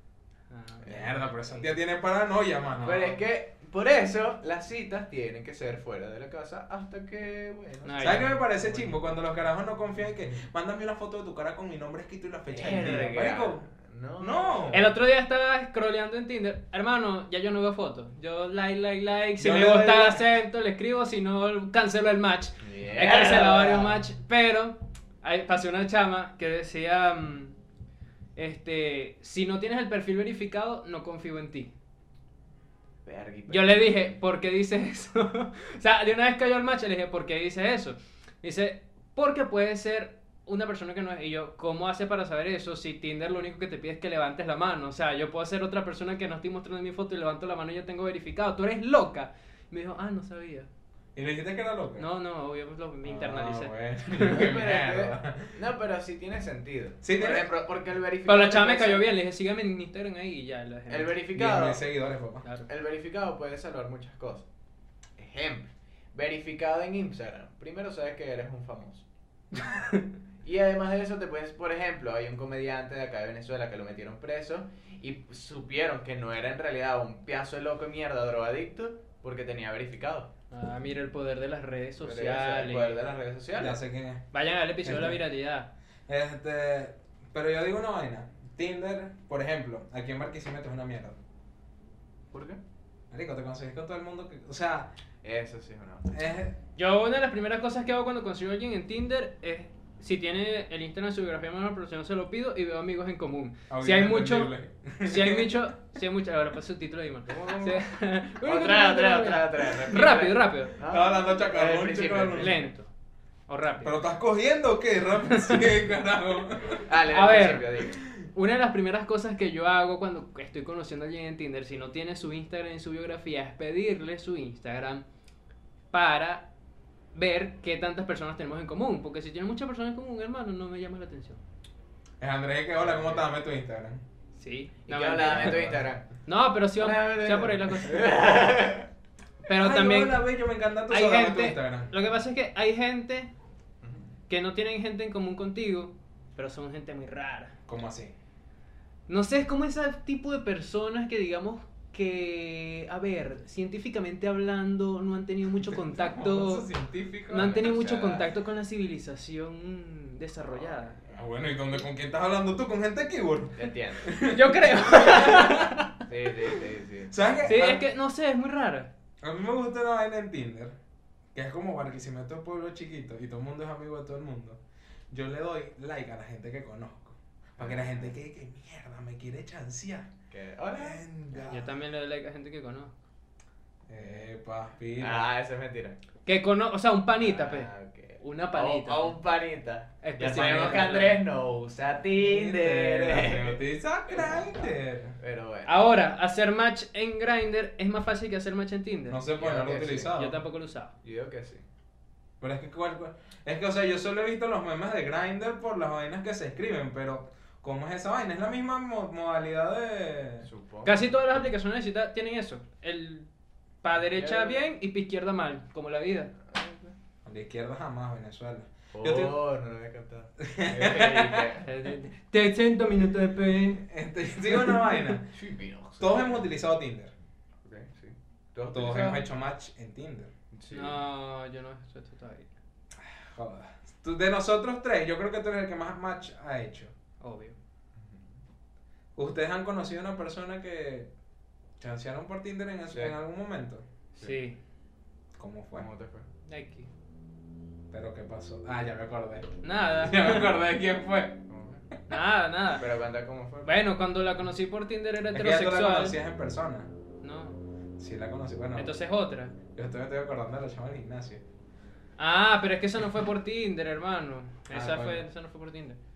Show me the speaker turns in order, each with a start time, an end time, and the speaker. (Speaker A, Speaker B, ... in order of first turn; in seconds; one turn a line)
Speaker A: 0.5-1.7
Speaker B: 0.8-3.2
Speaker A: 2.7-3.1
Speaker C: 2.8-8.3
Speaker A: 7.8-9.0
Speaker B: 8.0-14.9
Speaker C: 12.5-14.9
Speaker A: 12.6-13.2
Speaker A: 14.7-27.6
Speaker B: 19.4-20.2
Speaker C: 22.6-24.1
Speaker A: 28.3-31.7
Speaker C: 33.0-34.2
Speaker A: 33.5-50.7
Speaker B: 51.1-52.1
Speaker A: 52.0-54.5
Speaker B: 53.0-55.6
Speaker C: 54.2-59.1
Speaker B: 57.0-57.5
Speaker A: 58.2-61.2
Speaker C: 60.9-61.9
Speaker B: 61.3-62.4
Speaker C: 62.6-64.4
Speaker C: 65.2-69.0
Speaker A: 69.5-70.0
Speaker C: 70.4-80.3
Speaker A: 80.5-83.0
Speaker C: 82.0-83.8
Speaker B: 83.5-84.2
Speaker A: 84.3-85.7
Speaker B: 84.8-85.2
Speaker B: 86.1-91.2
Speaker C: 92.3-92.6
Speaker B: 93.1-94.9
Speaker C: 95.2-96.1
Speaker B: 96.1-96.6
Speaker A: 96.7-110.8
Speaker B: 103.7-105.7
Speaker C: 107.2-107.9
Speaker C: 108.4-112.7
Speaker B: 110.8-112.7
Speaker A: 112.3-112.9
Speaker A: 113.5-114.0
Speaker B: 113.8-116.9
Speaker A: 115.3-115.7
Speaker C: 116.9-118.0
Speaker A: 117.1-125.0
Speaker B: 117.9-118.2
Speaker A: 125.9-126.5
Speaker A: 127.1-131.4
Speaker B: 132.2-134.0
Speaker C: 132.8-133.3
Speaker A: 134.3-135.7
Speaker C: 134.8-136.1
Speaker B: 135.3-135.8
Speaker A: 136.2-138.1
Speaker C: 136.8-138.9
Speaker A: 139.4-140.3
Speaker B: 139.5-141.9
Speaker A: 140.8-143.3
Speaker C: 143.8-144.1
Speaker A: 144.3-147.5
Speaker B: 147.7-148.1
Speaker A: 149.1-156.7
Speaker B: 155.6-157.6
Speaker A: 157.3-161.0
Speaker C: 157.3-158.3
Speaker C: 160.6-161.2
Speaker B: 161.1-165.7
Speaker C: 163.6-164.1
Speaker A: 164.2-166.0
Speaker C: 166.1-167.6
Speaker B: 167.1-167.9
Speaker A: 167.4-168.9
Speaker B: 169.2-170.7
Speaker B: 171.3-174.6
Speaker B: 175.1-180.1
Speaker C: 177.6-178.2
Speaker C: 180.3-181.4
Speaker B: 180.7-181.8
Speaker A: 181.4-182.9
Speaker B: 183.9-185.3
Speaker C: 185.0-186.0
Speaker A: 186.2-189.2
Speaker C: 187.2-193.6
Speaker A: 190.0-191.2
Speaker B: 190.3-190.9
Speaker B: 192.1-195.2
Speaker C: 195.2-195.9
Speaker A: 195.6-199.3
Speaker B: 199.1-200.4
Speaker C: 199.4-200.1
Speaker A: 200.0-200.9
Speaker C: 201.0-201.6
Speaker B: 202.4-210.5
Speaker C: 210.4-211.2
Speaker A: 210.8-213.3
Speaker A: 213.8-216.3
Speaker C: 214.0-214.7
Speaker C: 216.5-216.9
Speaker B: 217.2-219.4
Speaker C: 218.9-221.7
Speaker B: 220.4-221.5
Speaker A: 221.6-223.8
Speaker B: 223.6-225.3
Speaker A: 224.4-225.1
Speaker C: 225.3-226.5
Speaker B: 226.0-227.1
Speaker C: 227.6-229.2
Speaker B: 228.7-230.3
Speaker C: 230.5-231.0
Speaker A: 230.7-232.5
Speaker B: 232.9-236.9
Speaker A: 237.2-237.6
Speaker C: 237.9-238.4
Speaker B: 239.1-241.1
Speaker B: 241.8-243.8
Speaker C: 242.9-243.2
Speaker A: 244.2-244.6
Speaker B: 245.4-245.9
Speaker C: 245.7-246.2
Speaker A: 246.5-246.9
Speaker B: 247.9-251.4
Speaker A: 249.6-250.5
Speaker C: 251.5-251.8
Speaker A: 252.1-252.8
Speaker C: 252.8-253.8
Speaker A: 253.6-256.2
Speaker B: 255.3-256.9
Speaker A: 257.2-257.6
Speaker B: 258.0-259.0
Speaker A: 258.8-259.6
Speaker B: 259.7-261.4
Speaker A: 262.2-266.0
Speaker B: 264.7-265.2